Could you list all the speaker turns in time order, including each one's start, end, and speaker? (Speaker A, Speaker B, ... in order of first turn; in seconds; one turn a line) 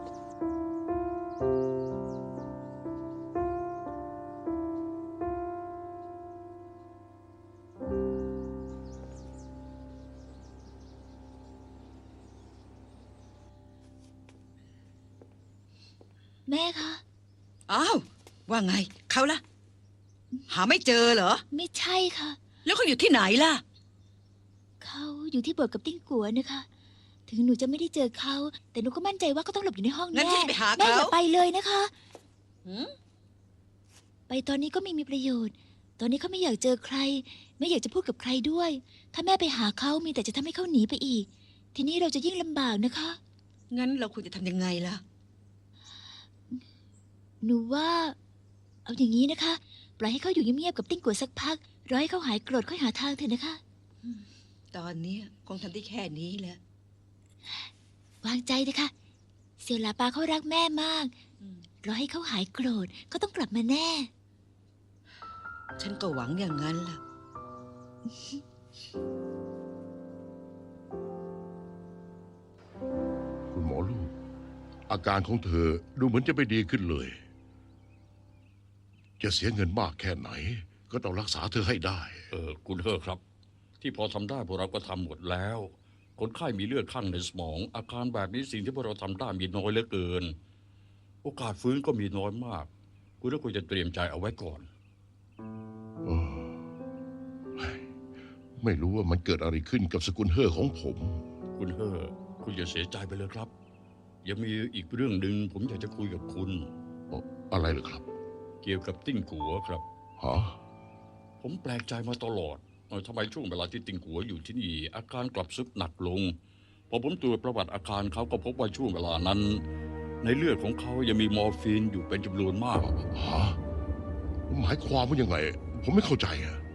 Speaker A: 16.5-17.0
Speaker B: 17.7-19.4
Speaker B: 20.5-21.4
Speaker A: 21.5-22.4
Speaker B: 22.6-23.6
Speaker A: 24.8-26.6
Speaker A: 27.3-31.9
Speaker B: 30.1-31.2
Speaker B: 32.6-32.9
Speaker A: 34.3-43.2
Speaker B: 43.7-45.0
Speaker A: 47.4-48.1
Speaker A: 48.9-53.6
Speaker B: 54.0-56.6
Speaker A: 58.2-58.9
Speaker A: 59.6-61.1
Speaker A: 61.8-64.1
Speaker B: 65.8-67.0
Speaker C: 73.5-74.1
Speaker C: 74.9-77.2
Speaker C: 79.2-82.3
Speaker D: 82.3-83.2
Speaker D: 83.8-90.3
Speaker D: 91.2-92.7
Speaker D: 93.2-94.7
Speaker C: 96.0-96.6
Speaker C: 97.6-97.9
Speaker C: 98.6-101.2
Speaker D: 101.5-103.5
Speaker D: 104.2-106.7
Speaker C: 107.1-108.0
Speaker D: 108.6-109.8
Speaker C: 110.2-110.6
Speaker D: 111.4-116.3
Speaker D: 116.9-119.6
Speaker D: 120.2-122.9
Speaker C: 122.8-123.6
Speaker C: 124.5-126.6